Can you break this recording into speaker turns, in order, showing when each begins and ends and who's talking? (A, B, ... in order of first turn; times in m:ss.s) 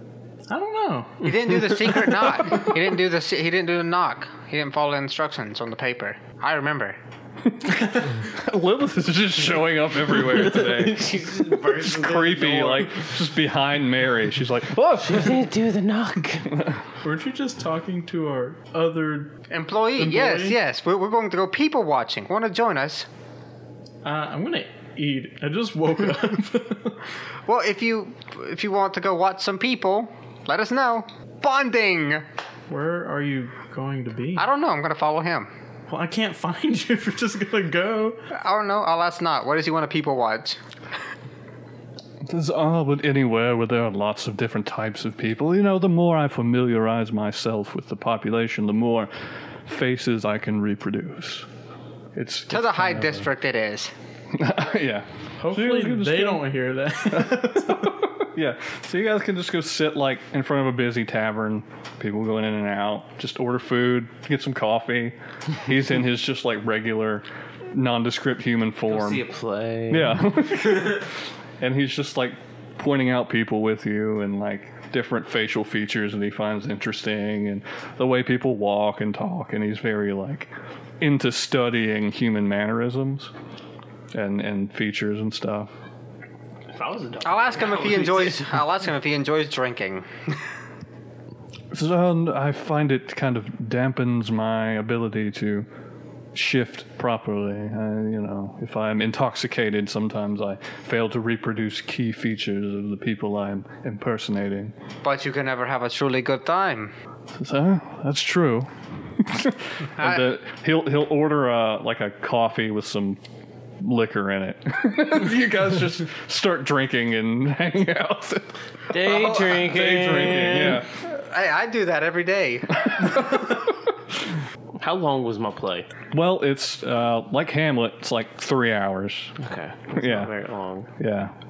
0:00.5-0:01.7 A
0:01.2-0:07.0 B
0:07.5-0:15.4 C
0:10.1-0:13.0 D
0:15.0-0:16.5 D
0:16.5-0:16.8 C
0:17.0-0:19.4 A
0:19.5-0:23.1 B
0:20.0-0:20.6 A
0:24.0-0:27.0 A
0:27.5-0:32.3 B
0:32.7-0:34.5 A
0:34.4-0:35.5 B
0:35.9-0:38.2 A
0:38.3-0:40.6 B
0:42.3-0:49.1 C
0:49.7-0:51.5 C
0:52.2-0:53.2 C
0:52.5-0:53.9 B
0:54.3-0:56.4 C
0:55.4-0:58.0 A
0:57.1-1:09.2 C
1:08.9-1:10.3 D
1:09.9-1:23.3 C
1:24.1-1:25.7 C
1:26.7-1:28.7 D
1:27.2-1:30.1 B
1:31.7-1:35.7 C
1:36.4-1:44.7 C
1:45.0-1:46.9 B
1:47.4-1:53.2 C
1:53.8-1:58.6 C
1:58.9-2:00.8 D
1:59.0-1:59.7 B
1:59.5-2:00.9 C
2:01.0-2:03.4 B
2:02.8-2:03.7 C
2:04.8-2:05.9 D
2:06.1-2:09.4 C
2:09.4-2:10.9 D
2:10.0-2:10.3 C
2:11.0-2:11.3 C